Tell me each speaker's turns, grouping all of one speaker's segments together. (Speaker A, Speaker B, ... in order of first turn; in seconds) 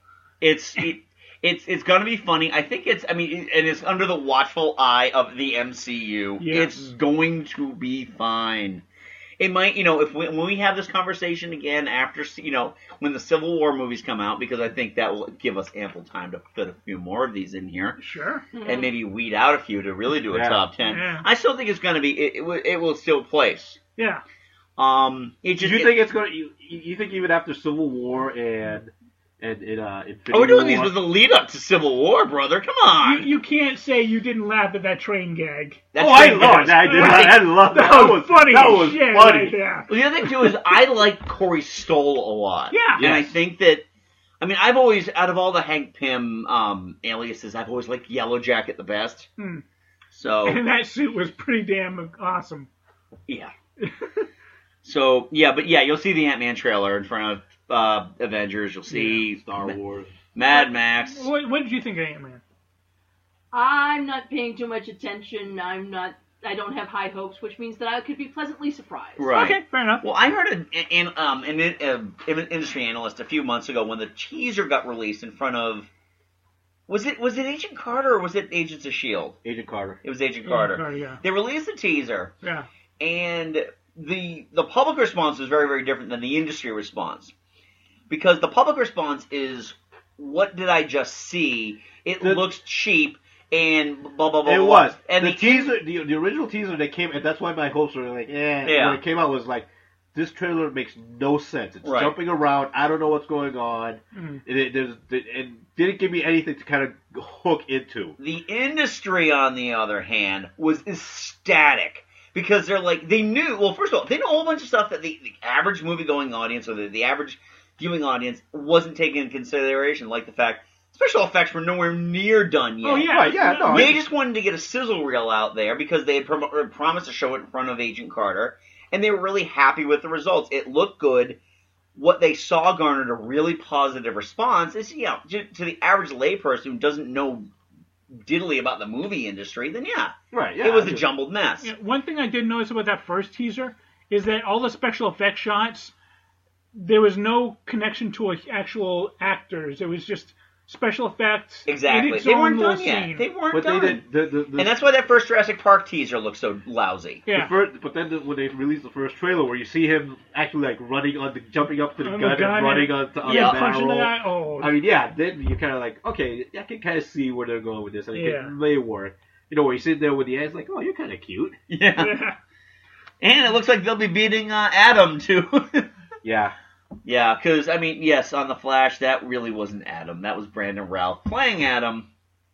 Speaker A: 0.4-8.8, 9.4-18.0, 18.6-23.8, 24.8-26.0, 30.3-33.3, 35.9-37.4, 39.9-43.8, 44.4-49.3, 50.1-50.6, 53.3-53.5, 54.8-59.7, 60.3-61.3, 69.2-75.9, 76.9-79.4, 80.0-82.3, 83.0-87.3, 88.1-95.7, 98.6-99.0, 101.8-102.1, 108.2-131.4, 131.9-137.5, 138.1-141.7, 151.7-154.0, 154.5-157.2, 163.2-163.6, 171.7-172.3, 173.2-175.9, 177.0-182.1
Speaker B: 6.4-6.8, 18.0-18.5, 20.8-21.2, 24.0-24.2, 33.0-39.9, 42.7-43.1, 49.4-49.6, 50.4-52.7, 53.8-54.2, 58.9-59.2, 60.5-62.4, 69.3-70.0, 80.4-81.2, 82.4-82.7, 104.1-104.4, 122.8-123.9, 141.6-145.9, 146.7-153.3, 157.2-157.5, 162.0-164.8, 168.1-168.5, 172.0-172.3
Speaker C: 18.5-18.9, 63.5-69.3
Speaker D: 20.3-20.6, 25.5-31.0, 36.0-39.6, 43.0-43.4, 59.3-60.1, 79.4-80.0, 92.2-92.5, 94.4-108.2, 123.1-124.0, 140.3-141.1, 153.5-154.7, 157.3-171.6, 176.2-176.5